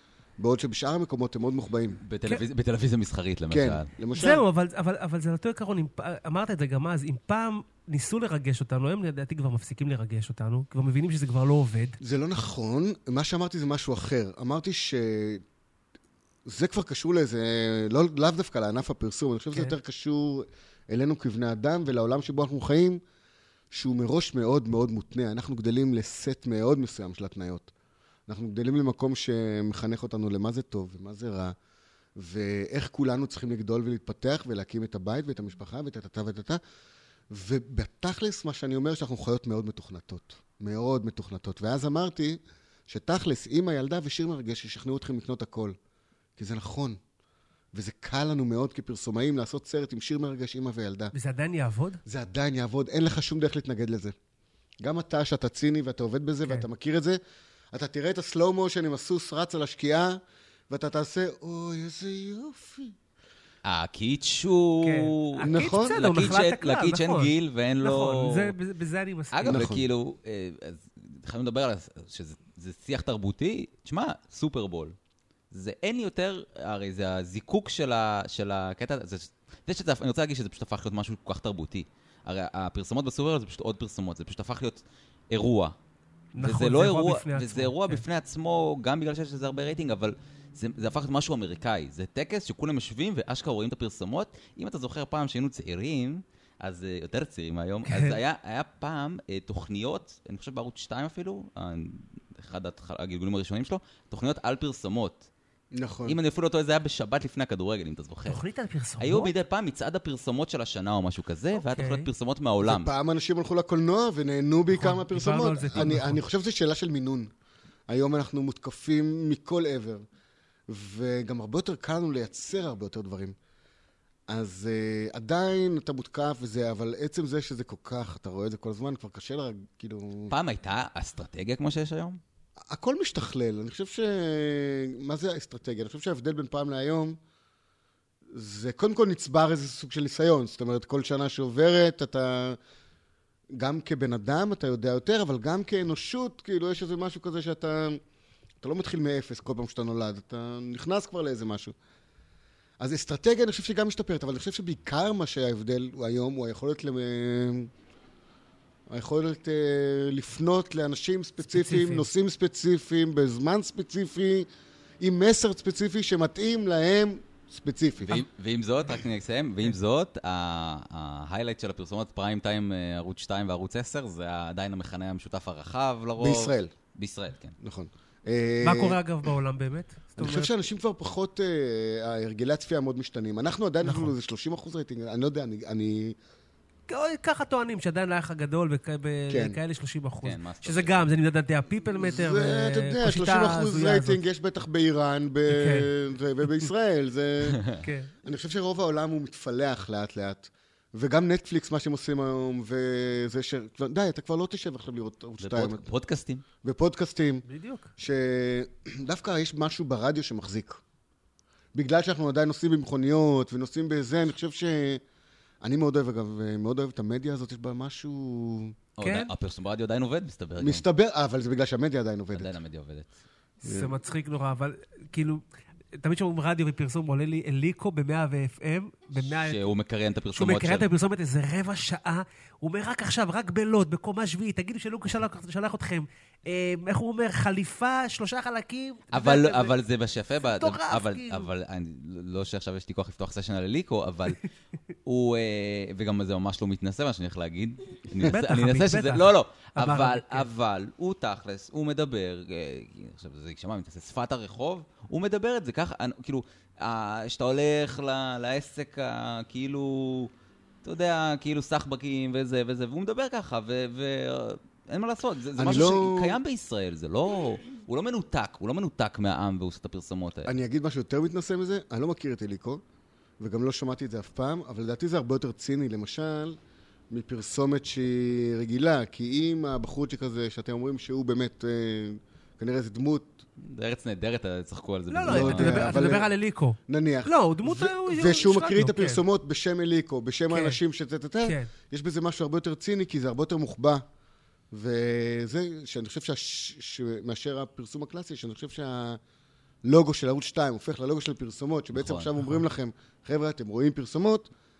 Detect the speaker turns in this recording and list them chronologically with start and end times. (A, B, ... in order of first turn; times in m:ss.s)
0:00.4-0:02.0 A
0:02.0-0:03.9 B
0:03.5-0:04.4 A
0:04.1-0:12.0 C
0:12.0-0:15.4 A
0:16.5-0:23.0 A
0:23.7-0:27.7 A
0:28.3-0:31.6 A
0:32.2-0:36.6 A
0:37.3-0:45.8 A
0:46.4-0:47.0 A
0:47.7-0:51.1 A
0:51.1-0:52.0 C
0:52.0-0:54.1 A
0:54.8-0:57.2 A
0:57.7-1:02.9 A
1:03.6-1:08.5 B
1:04.8-1:09.7 C
1:05.4-1:06.0 A
1:09.3-1:14.9 B
1:09.4-1:09.8 A
1:15.5-1:25.7 B
1:26.3-1:28.0 C
1:26.4-1:45.3 B
1:37.9-1:38.2 C
1:45.7-1:46.2 A
1:46.0-1:48.4 B
1:48.3-1:49.3 C
1:49.0-1:52.9 B
1:51.6-1:52.1 C
1:52.6-1:57.3 A
1:54.7-1:56.2 C
1:57.9-2:00.0 A
2:00.7-2:03.4 A
2:04.3-2:10.3 A
2:10.3-2:12.2 B
2:12.6-2:17.2 A
2:18.3-2:22.6 A
2:23.5-2:28.0 A
2:28.6-2:31.7 A
2:32.8-2:37.7 A
2:38.9-2:44.5 A
2:41.5-2:42.1 C
2:45.0-2:48.2 A
2:48.0-2:57.6 B
2:56.2-2:56.7 A
2:57.6-2:59.0 A
2:58.6-3:00.5 C
3:00.2-3:06.2 A
3:03.8-3:04.1 C
3:06.9-3:14.2 C
3:09.3-3:09.6 A
3:10.2-3:11.0 B
3:12.0-3:17.6 A
3:15.5-3:15.9 C
3:17.5-3:17.8 B
3:17.8-3:18.1 C
3:18.2-3:25.9 A
3:25.4-3:26.4 B
3:26.6-3:27.4 A
3:27.5-3:27.9 C
3:28.0-3:30.8 A
3:31.7-3:35.0 A
3:35.6-3:38.8 A
3:39.0-3:40.8 B
3:39.0-3:39.3 C
3:40.6-3:42.6 A
3:42.3-3:43.1 B
3:43.6-3:45.4 C
3:43.6-3:43.9 A
3:45.9-3:49.6 C
3:49.2-3:50.9 B
3:50.3-3:59.7 C
3:59.1-4:04.4 B
4:00.5-4:01.5 C
4:05.0-4:20.3 B
4:08.2-4:10.4 C
4:20.8-4:30.5 B
4:25.6-4:26.4 A
4:30.4-4:32.8 A
4:33.4-4:36.6 A
4:37.1-4:43.4 A
4:43.6-4:45.9 B
4:45.1-4:49.2 C
4:45.3-4:46.3 A
4:46.9-4:54.0 A
4:50.5-4:50.8 C
4:51.4-4:51.7 C
4:54.7-4:59.2 A
4:59.8-5:04.5 A
5:01.9-5:02.6 B